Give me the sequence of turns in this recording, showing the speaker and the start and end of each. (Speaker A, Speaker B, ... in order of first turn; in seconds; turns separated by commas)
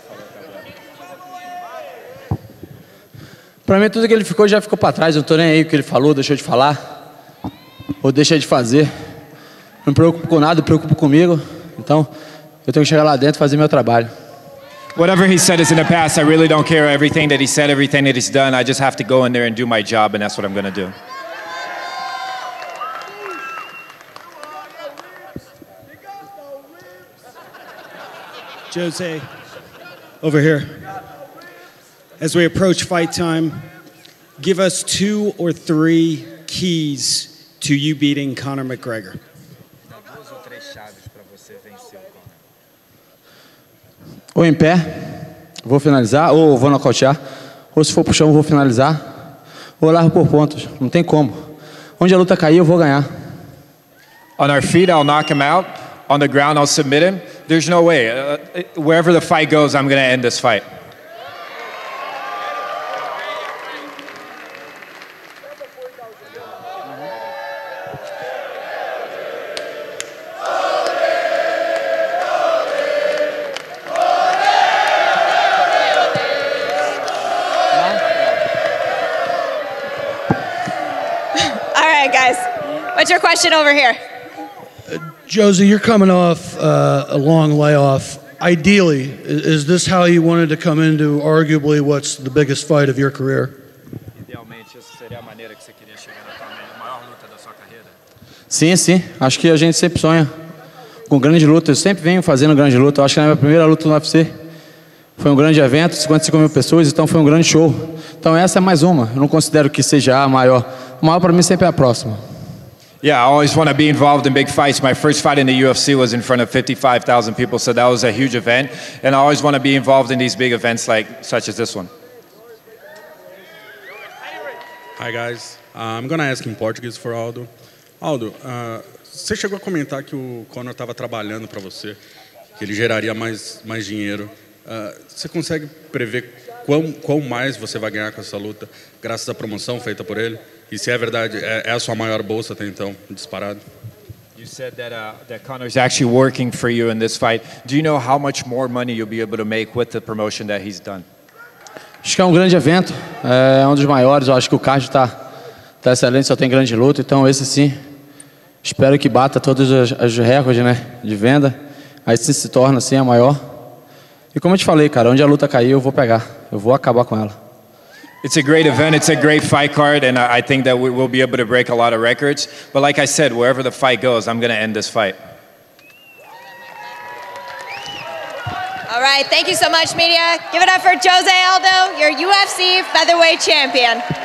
Speaker A: 3.6-6.8, Speaker A: 8.0-8.9, Speaker A: 9.8-12.1, Speaker A: 12.7-14.1, Speaker B: 15.0-20.9, Speaker C: 28.7-29.3, Speaker C: 30.2-30.9, Speaker C: 32.2-33.7, Speaker C: 34.4-39.2, Speaker B: 39.9-42.3, Speaker A: 44.3-47.2, Speaker A: 47.7-49.0, Speaker A: 49.8-53.1, Speaker B: 54.4-60.6, Speaker D: 81.4-84.0, Speaker E: 84.9-93.6, Speaker B: 94.2-97.9, Speaker A: 98.5-100.3, Speaker A: 101.1-104.3, Speaker A: 105.2-112.2, Speaker B: 113.0-121.9, Speaker F: 125.0-127.5, Speaker F: 128.0-132.0, Speaker F: 132.6-143.6, Speaker B: 144.4-151.1, Speaker A: 152.0-155.2, Speaker A: 155.8-157.8, Speaker A: 158.6-163.4, Speaker A: 164.3-167.4, Speaker B: 168.2-175.2, Speaker D: 178.9-184.1